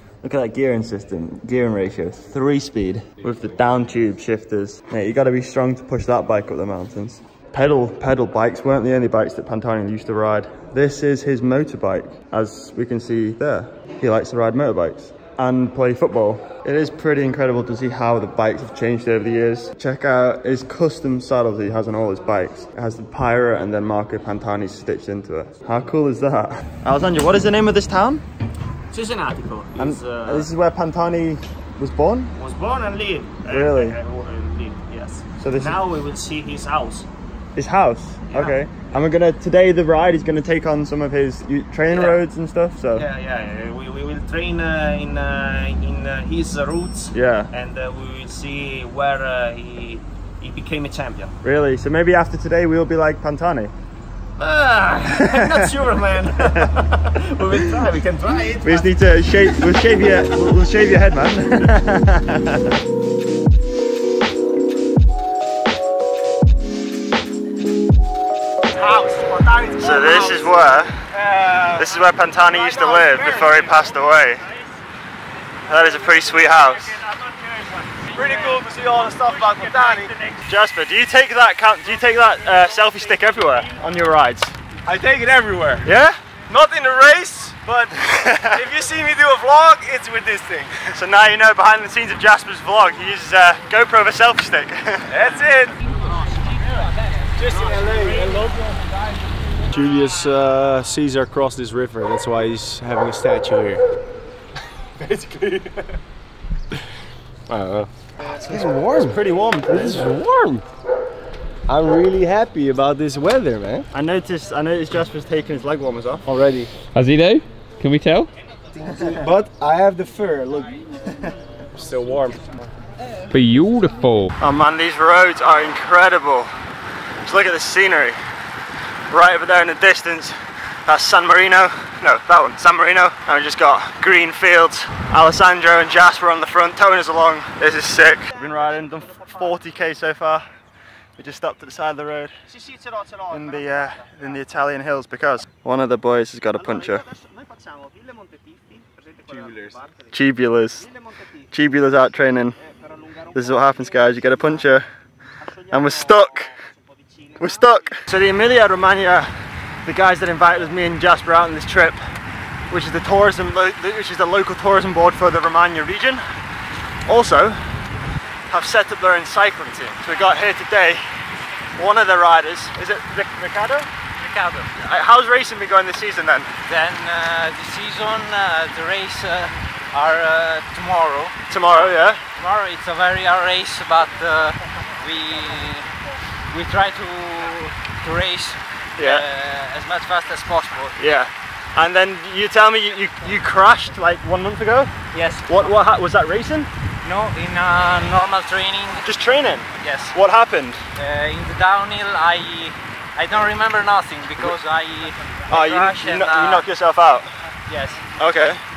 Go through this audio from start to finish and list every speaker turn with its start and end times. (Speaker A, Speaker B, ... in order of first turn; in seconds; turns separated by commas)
Speaker A: 0.2-28.2, Speaker B: 28.9-30.5, Speaker A: 29.8-32.3, Speaker B: 32.4-37.0, Speaker A: 33.4-34.0, Speaker A: 35.4-35.8, Speaker A: 37.5-43.0, Speaker B: 38.3-38.6, Speaker B: 41.9-42.2, Speaker B: 42.9-51.3, Speaker A: 47.1-47.5, Speaker A: 51.4-53.7, Speaker B: 54.4-58.8, Speaker A: 55.1-55.8, Speaker A: 56.3-56.8, Speaker A: 58.6-62.7, Speaker B: 59.7-60.0, Speaker B: 68.8-70.5, Speaker C: 69.4-70.4, Speaker A: 69.8-71.0, Speaker C: 71.2-71.8, Speaker A: 71.7-74.4, Speaker B: 72.5-73.8, Speaker A: 75.7-77.0, Speaker B: 76.1-80.4, Speaker C: 78.1-80.1, Speaker A: 80.5-84.5, Speaker C: 84.8-85.8, Speaker A: 85.8-86.2, Speaker C: 86.5-90.7, Speaker A: 88.0-88.5, Speaker A: 90.9-95.1, Speaker C: 95.1-95.8, Speaker C: 97.4-103.8, Speaker B: 97.5-98.3, Speaker C: 105.0-105.8, Speaker C: 107.5-110.6, Speaker A: 108.5-110.1, Speaker C: 111.7-113.8, Speaker A: 113.9-116.2, Speaker C: 116.2-116.7, Speaker D: 116.9-118.3, Speaker C: 118.8-120.8, Speaker C: 121.8-122.4, Speaker D: 123.3-124.3, Speaker A: 124.4-126.5, Speaker A: 127.2-128.2, Speaker A: 129.1-130.3, Speaker A: 130.8-140.4, Speaker A: 141.2-142.3, Speaker B: 142.5-143.9, Speaker A: 143.3-147.1, Speaker B: 146.8-149.9, Speaker C: 149.3-149.7, Speaker A: 150.1-150.9, Speaker A: 151.5-152.6, Speaker A: 153.3-154.8, Speaker A: 155.7-156.5, Speaker A: 157.4-159.3, Speaker A: 159.8-162.0, Speaker A: 162.7-166.2, Speaker A: 167.1-167.8, Speaker A: 168.5-171.0, Speaker A: 171.8-173.9, Speaker E: 174.2-174.7, Speaker A: 174.8-176.6, Speaker E: 176.7-181.3, Speaker A: 181.5-182.2, Speaker E: 182.3-185.9, Speaker E: 186.5-190.9, Speaker A: 189.0-189.3, Speaker A: 191.0-194.9, Speaker E: 195.1-195.7, Speaker A: 195.4-196.7, Speaker E: 197.0-199.0, Speaker A: 199.0-200.8, Speaker E: 199.8-200.2, Speaker E: 200.9-206.6, Speaker A: 205.5-207.3, Speaker E: 207.7-208.5, Speaker A: 208.2-208.6